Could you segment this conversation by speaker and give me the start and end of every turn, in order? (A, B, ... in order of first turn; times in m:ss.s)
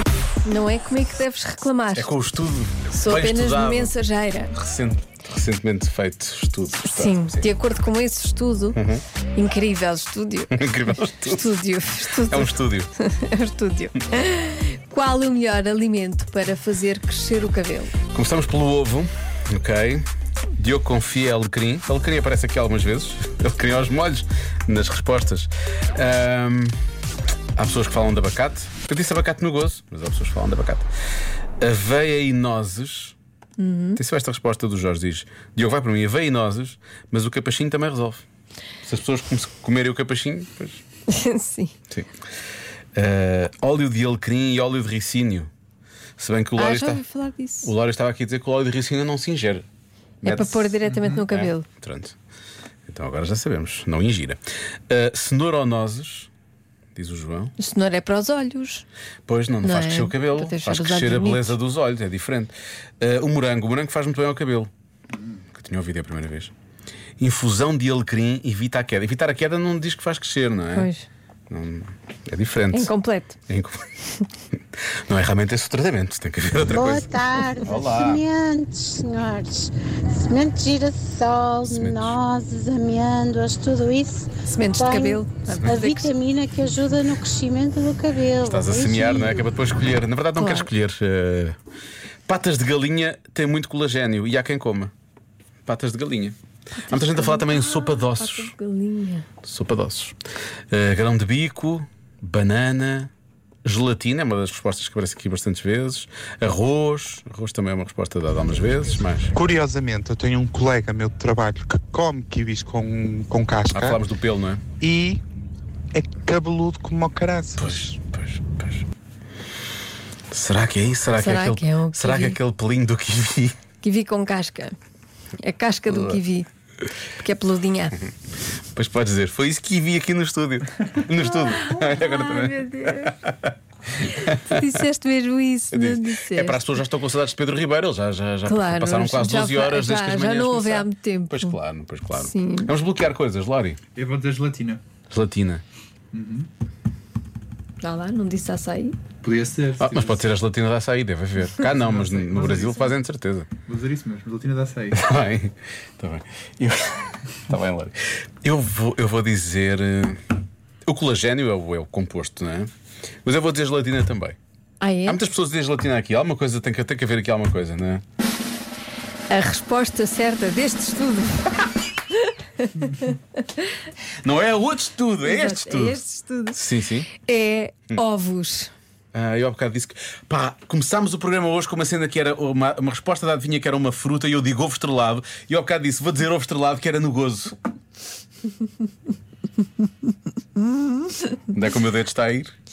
0:00.4-0:02.1 A
0:01.9-0:04.0 B
0:02.9-0:04.5 A
0:04.5-0:07.6 B
0:06.8-0:08.8 A
0:08.7-0:09.0 B
0:09.3-0:18.0 A
0:10.5-0:11.6 B
0:12.1-0:12.9 B
0:18.0-0:20.0 B
0:20.6-0:26.8 B
0:27.6-0:30.9 B
0:31.6-0:33.2 B
0:33.6-0:34.0 A
0:34.0-0:38.2 B
0:38.8-0:40.8 B
0:41.1-0:41.7 A
0:43.0-0:45.5 B
0:46.2-0:47.0 B
0:46.6-0:47.7 A
0:47.6-0:49.6 B
0:50.2-0:52.2 B
0:50.2-0:51.6 A
0:50.8-0:51.2 C
0:52.9-0:54.4 B
0:54.9-0:56.3 B
0:56.9-0:57.5 B
0:57.6-0:58.8 A
0:59.3-1:04.7 B
0:59.6-1:01.6 A
1:05.4-1:06.5 B
1:07.2-1:10.9 B
1:10.7-1:11.1 A
1:11.5-1:13.9 B
1:12.7-1:13.4 A
1:14.9-1:18.2 B
1:16.6-1:29.4 D
1:21.6-1:22.2 B
1:24.4-1:26.1 A
1:25.5-1:25.8 B
1:28.4-1:31.6 B
1:30.3-1:30.7 A
1:32.3-1:34.9 B
1:35.6-1:38.6 B
1:36.8-1:39.3 A
1:39.4-1:40.2 B
1:40.7-1:43.1 B
1:43.6-1:49.4 B
1:49.3-1:54.0 E
1:53.7-1:54.6 B
1:54.8-1:55.2 E
1:55.9-1:57.8 E
1:57.6-1:58.8 B
2:00.3-2:03.6 B
2:01.1-2:02.4 A
2:03.8-2:04.7 A
2:05.4-2:06.5 A
2:05.9-2:06.2 B
2:07.2-2:08.0 A
2:08.7-2:14.8 B
2:11.2-2:13.1 A
2:14.2-2:16.7 A
2:15.7-2:23.8 B
2:18.4-2:21.6 A
2:22.1-2:22.7 A
2:24.0-2:24.8 C
2:25.1-2:25.6 B
2:26.1-2:26.5 C
2:27.8-2:29.0 A
2:29.2-2:30.2 C
2:29.8-2:33.5 B
2:31.6-2:33.0 C
2:33.6-2:35.0 C
2:34.9-2:40.2 B
2:40.8-2:42.7 B
2:43.2-2:44.4 B
2:44.8-2:45.2 A
2:45.0-2:48.0 B
2:49.3-2:53.7 A
2:54.2-2:57.2 B
2:55.2-2:56.6 A
2:57.1-2:58.7 A
2:59.1-3:07.5 B
3:10.8-3:11.4 A
3:11.5-3:12.5 B